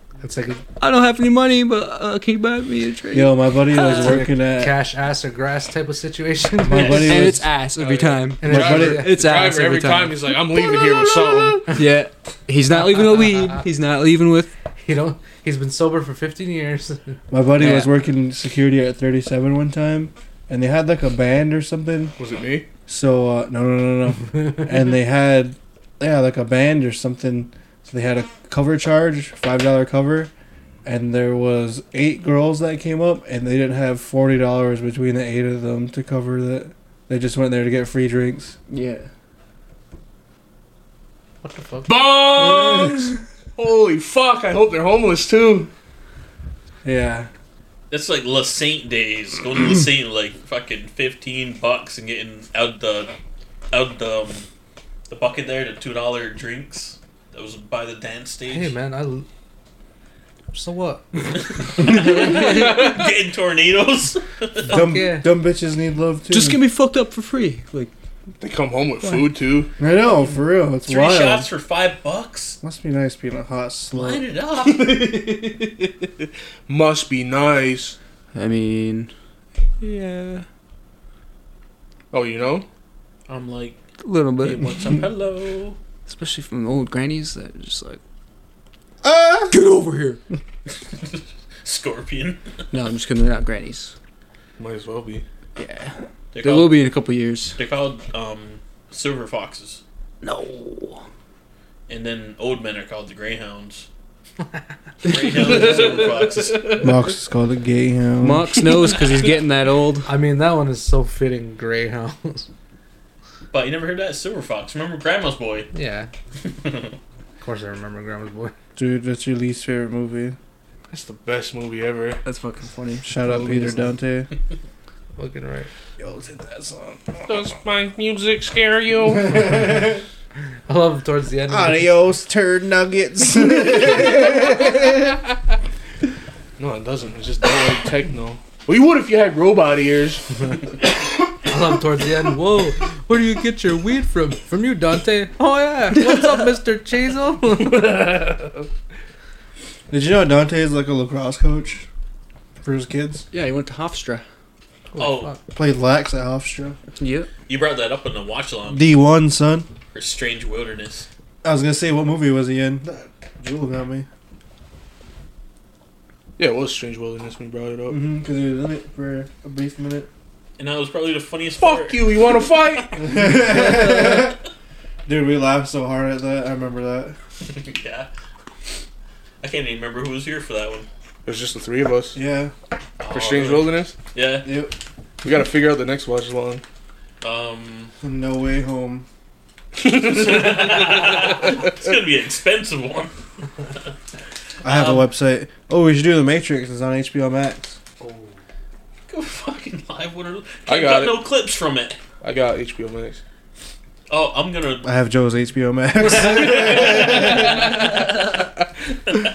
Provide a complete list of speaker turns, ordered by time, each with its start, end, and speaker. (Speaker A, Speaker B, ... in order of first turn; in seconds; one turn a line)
Speaker A: 0.2-0.6
Speaker B: 0.8-4.3
Speaker C: 3.1-4.8
Speaker A: 4.0-9.5
Speaker C: 6.6-7.5
Speaker D: 6.8-7.1
Speaker B: 6.8-10.2
Speaker E: 8.5-11.6
Speaker C: 8.5-9.1
Speaker B: 11.7-14.5
Speaker A: 12.8-13.6
Speaker A: 14.8-17.2
Speaker C: 17.3-22.2
Speaker B: 17.6-17.9
Speaker E: 22.2-22.7
Speaker C: 22.9-30.3
Speaker C: 30.9-38.5
Speaker B: 38.7-39.1
Speaker A: 41.4-42.0
Speaker E: 41.9-45.7
Speaker C: 46.8-47.3
Speaker D: 47.9-53.1
Speaker D: 53.7-54.5
Speaker D: 55.1-58.7
Speaker A: 58.5-59.3
Speaker A: 60.5-63.0
Speaker D: 61.4-64.9
Speaker A: 64.7-65.2
Speaker C: 64.7-66.6
Speaker B: 66.3-67.9
Speaker E: 68.4-69.7
Speaker C: 69.8-71.5
Speaker D: 70.9-72.6
Speaker C: 72.6-74.2
Speaker D: 73.9-75.3
Speaker B: 74.7-75.4
Speaker E: 76.7-78.0
Speaker B: 78.3-79.1
Speaker B: 79.8-80.5
Speaker E: 82.1-82.7
Speaker D: 83.3-83.8
Speaker B: 84.0-84.7
Speaker D: 84.4-85.8
Speaker B: 86.1-88.0
Speaker C: 89.0-89.5
Speaker B: 89.5-90.2
Speaker D: 91.0-92.4
Speaker B: 92.7-93.9
Speaker E: 94.6-95.2
Speaker B: 95.6-97.6
Speaker D: 96.3-96.8
Speaker D: 97.6-99.8
Speaker B: 100.2-101.0
Speaker D: 101.9-103.9
Speaker D: 105.0-106.8
Speaker B: 105.1-106.0
Speaker E: 105.5-106.8
Speaker C: 106.8-108.5
Speaker B: 108.2-110.1
Speaker A: 110.1-112.5
Speaker D: 113.5-115.7
Speaker A: 115.7-116.1
Speaker D: 116.5-117.0
Speaker A: 117.4-118.5
Speaker C: 118.8-120.4
Speaker E: 120.9-122.2
Speaker B: 122.2-123.9
Speaker C: 123.0-124.3
Speaker A: 125.2-125.7
Speaker C: 126.0-127.3
Speaker E: 127.2-129.7
Speaker C: 129.2-130.0
Speaker A: 130.7-131.9
Speaker C: 131.5-135.2
Speaker E: 136.6-140.3
Speaker A: 141.5-148.5
Speaker C: 149.9-151.9
Speaker C: 152.6-153.3
Speaker B: 153.3-154.2
Speaker A: 154.9-155.4
Speaker D: 155.0-155.3
Speaker C: 155.5-156.8
Speaker B: 156.9-157.3
Speaker D: 157.5-158.9
Speaker C: 158.7-159.7
Speaker D: 159.9-161.1
Speaker C: 161.4-164.1
Speaker E: 166.4-168.0
Speaker C: 167.9-170.1
Speaker D: 170.6-172.8
Speaker E: 171.6-173.1
Speaker C: 173.0-174.4
Speaker C: 175.1-177.2
Speaker D: 177.5-178.1
Speaker D: 179.4-180.9
Speaker E: 181.3-182.2
Speaker C: 182.2-182.5
Speaker D: 183.0-184.5
Speaker E: 183.1-183.9
Speaker C: 184.4-184.8
Speaker E: 185.2-186.6
Speaker D: 187.2-187.9
Speaker C: 188.0-189.1
Speaker E: 189.8-191.1
Speaker D: 189.9-193.2
Speaker C: 194.6-197.8
Speaker D: 194.7-195.1
Speaker A: 198.0-198.4
Speaker D: 199.1-202.0
Speaker E: 200.7-201.2
Speaker E: 202.2-203.2
Speaker D: 204.1-204.9
Speaker C: 204.8-207.7
Speaker D: 206.5-208.1